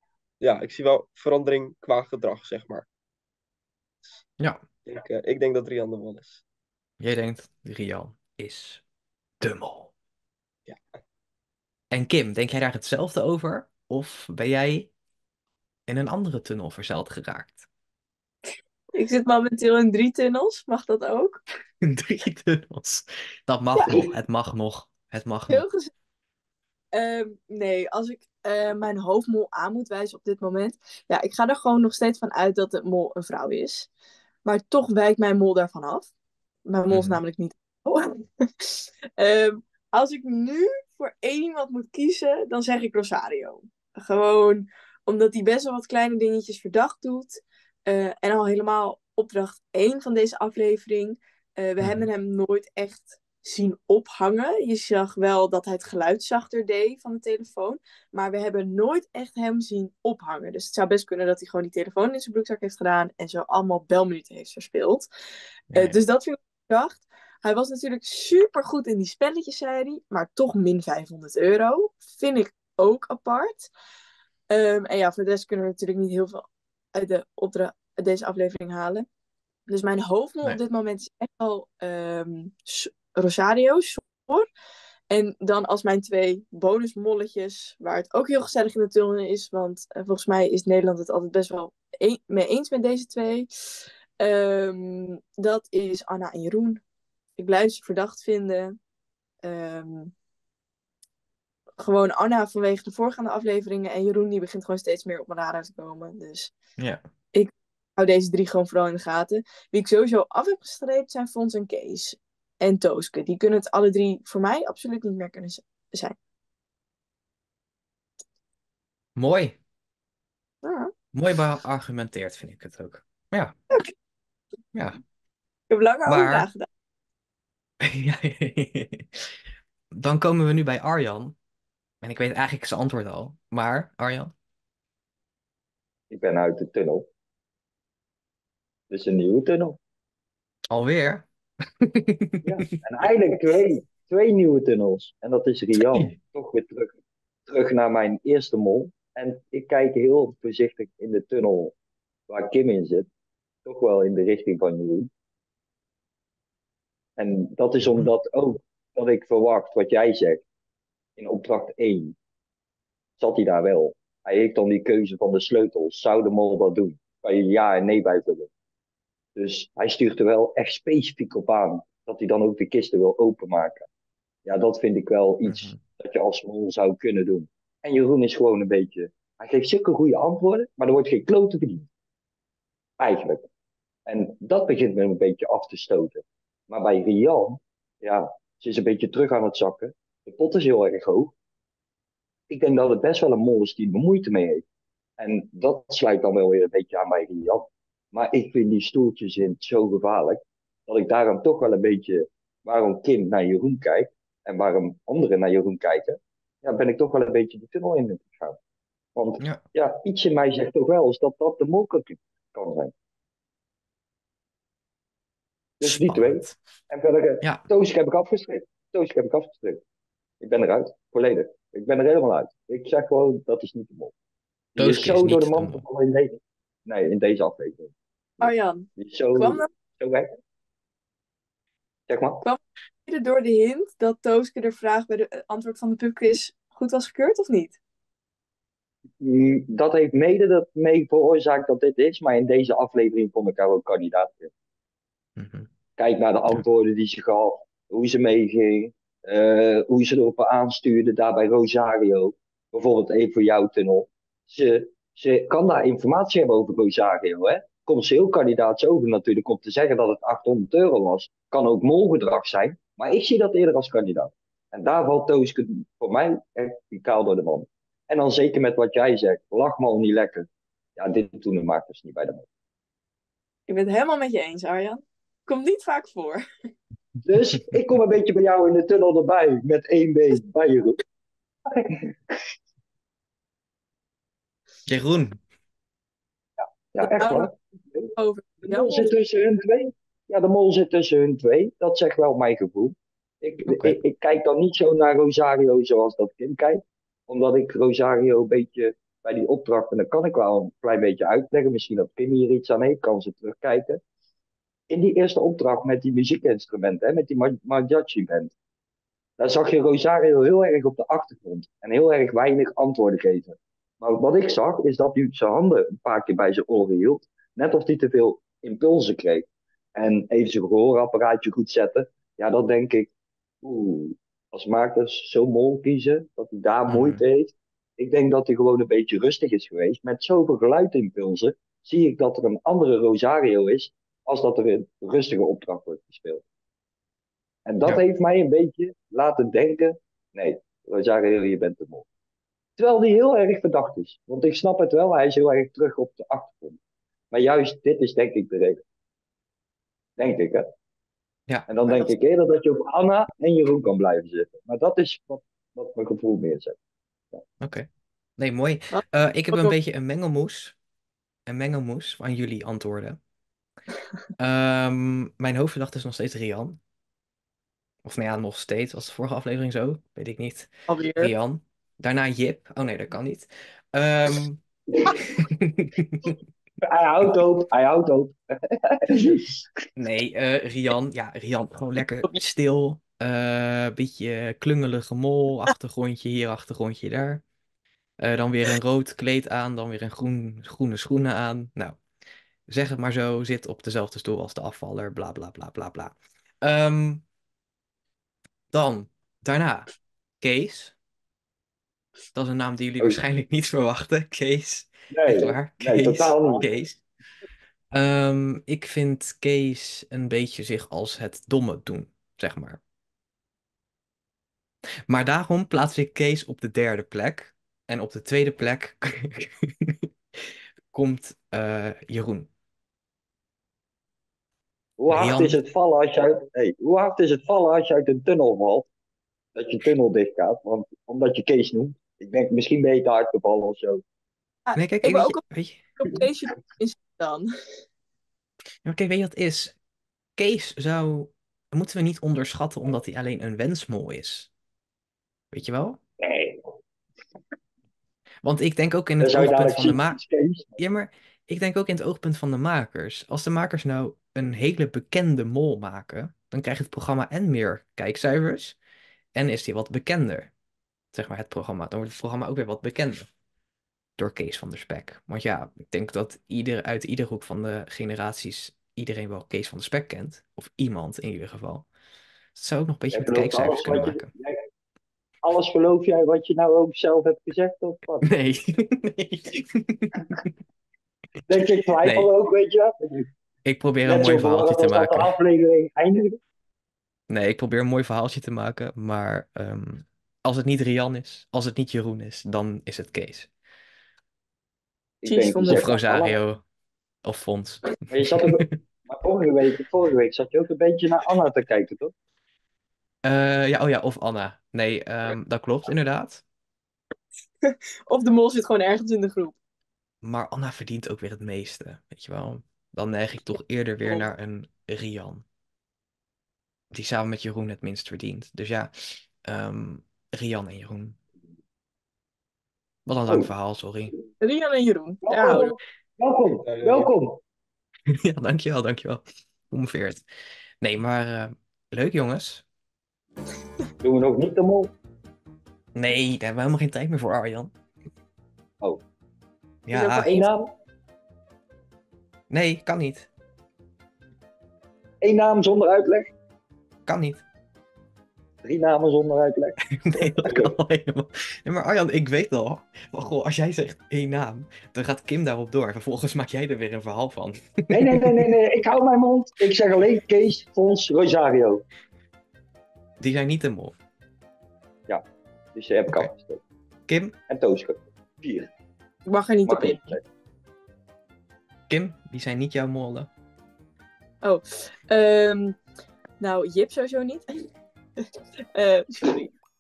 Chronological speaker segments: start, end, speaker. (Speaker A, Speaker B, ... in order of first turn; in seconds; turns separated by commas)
Speaker A: 0.4-2.9, Speaker A: 4.9-6.4, Speaker B: 7.0-8.8, Speaker B: 9.4-9.9, Speaker B: 11.9-14.9, Speaker B: 15.9-17.7, Speaker C: 18.9-21.4, Speaker B: 21.8-25.6, Speaker C: 23.8-24.0, Speaker C: 25.5-25.9, Speaker C: 26.9-33.9, Speaker C: 34.5-36.1, Speaker C: 36.7-65.1, Speaker B: 36.9-37.2, Speaker B: 51.8-52.1, Speaker B: 65.7-66.0, Speaker C: 65.7-73.7, Speaker C: 74.5-79.1, Speaker C: 79.7-84.5, Speaker C: 85.1-96.8, Speaker C: 97.4-98.8, Speaker C: 99.4-100.1, Speaker C: 101.8-106.5, Speaker C: 107.3-116.1, Speaker B: 119.2-119.6, Speaker C: 120.6-120.9, Speaker B: 121.1-123.5, Speaker B: 124.7-125.0, Speaker C: 125.7-126.7, Speaker B: 126.1-126.5, Speaker B: 127.8-129.4, Speaker B: 129.9-131.4, Speaker B: 132.0-134.3, Speaker D: 136.1-137.1, Speaker D: 138.9-139.8, Speaker B: 140.7-141.3, Speaker B: 141.8-142.4, Speaker D: 142.4-146.9, Speaker B: 145.8-146.1, Speaker D: 147.5-151.7, Speaker D: 152.3-153.1, Speaker D: 153.6-155.1, Speaker D: 157.2-160.4, Speaker D: 161.2-162.2, Speaker D: 163.2-168.5, Speaker D: 169.4-173.9, Speaker D: 174.4-181.9, Speaker B: 175.5-175.8, Speaker D: 183.0-183.5, Speaker D: 184.1-191.3, Speaker D: 192.5-194.6, Speaker D: 195.2-208.6, Speaker D: 209.2-212.9, Speaker D: 215.8-219.8, Speaker B: 215.8-216.6, Speaker D: 220.4-224.1, Speaker D: 224.8-230.3, Speaker B: 224.8-225.8, Speaker C: 228.4-229.7, Speaker D: 232.1-232.4, Speaker C: 232.4-237.8, Speaker D: 239.2-244.5, Speaker B: 245.4-245.7, Speaker D: 246.0-272.4, Speaker C: 273.7-276.4, Speaker D: 277.2-281.0, Speaker D: 281.7-282.4, Speaker B: 284.9-285.4, Speaker D: 286.9-304.0, Speaker C: 287.0-287.5, Speaker C: 288.2-289.1, Speaker B: 293.7-294.0, Speaker D: 304.9-308.5, Speaker D: 309.4-323.1, Speaker D: 323.6-336.4, Speaker B: 326.9-327.2, Speaker D: 337.7-342.1, Speaker D: 342.8-346.8, Speaker D: 347.3-348.8, Speaker D: 350.2-350.7, Speaker B: 351.5-352.1, Speaker D: 351.7-356.8, Speaker B: 357.6-357.9, Speaker B: 358.4-360.8, Speaker C: 358.9-359.7, Speaker B: 361.5-363.2, Speaker B: 364.4-366.8, Speaker B: 368.1-376.4, Speaker C: 370.9-371.3, Speaker D: 376.8-379.7, Speaker B: 379.9-387.4, Speaker B: 388.2-392.0, Speaker B: 392.7-397.3, Speaker B: 398.7-399.9, Speaker B: 400.4-400.9, Speaker B: 402.3-407.0, Speaker D: 405.1-406.6, Speaker B: 407.9-412.8, Speaker B: 415.1-422.5, Speaker D: 425.0-428.9, Speaker B: 425.1-425.6, Speaker D: 429.6-434.0, Speaker C: 434.7-435.4, Speaker B: 434.8-435.9, Speaker C: 436.0-437.5, Speaker B: 438.9-439.8, Speaker B: 440.4-444.5, Speaker B: 445.5-446.0, Speaker D: 446.2-446.7, Speaker B: 448.4-450.2, Speaker D: 449.2-450.7, Speaker B: 450.8-458.8, Speaker B: 459.4-460.5, Speaker B: 461.1-463.3, Speaker B: 464.2-471.9, Speaker B: 472.6-474.3, Speaker D: 473.1-474.6, Speaker D: 475.4-478.3, Speaker B: 478.2-480.5, Speaker D: 481.5-483.3, Speaker B: 482.0-482.3, Speaker B: 483.6-485.3, Speaker D: 484.1-486.4, Speaker B: 487.3-493.5, Speaker D: 495.2-496.4, Speaker C: 495.2-496.0, Speaker B: 495.7-496.6, Speaker B: 497.2-498.6, Speaker D: 498.1-502.1, Speaker B: 503.2-506.4, Speaker C: 507.6-509.6, Speaker B: 510.2-515.5, Speaker B: 516.9-521.2, Speaker B: 523.1-524.1, Speaker C: 524.4-525.7, Speaker D: 525.2-527.4, Speaker A: 526.7-527.1, Speaker B: 528.1-530.2, Speaker B: 530.8-532.6, Speaker D: 534.0-534.9, Speaker B: 536.0-537.7, Speaker B: 539.9-540.4, Speaker C: 539.9-540.5, Speaker D: 540.2-540.7, Speaker B: 542.5-543.3, Speaker D: 545.2-546.3, Speaker B: 547.1-547.4, Speaker D: 548.6-550.8, Speaker B: 549.9-558.5, Speaker D: 557.9-561.8, Speaker B: 563.2-564.0, Speaker D: 565.8-566.6, Speaker B: 567.1-567.4, Speaker D: 567.5-568.7, Speaker C: 569.2-570.1, Speaker D: 569.7-570.2, Speaker B: 571.9-573.3, Speaker C: 574.4-575.8, Speaker C: 576.4-577.7, Speaker C: 578.2-579.5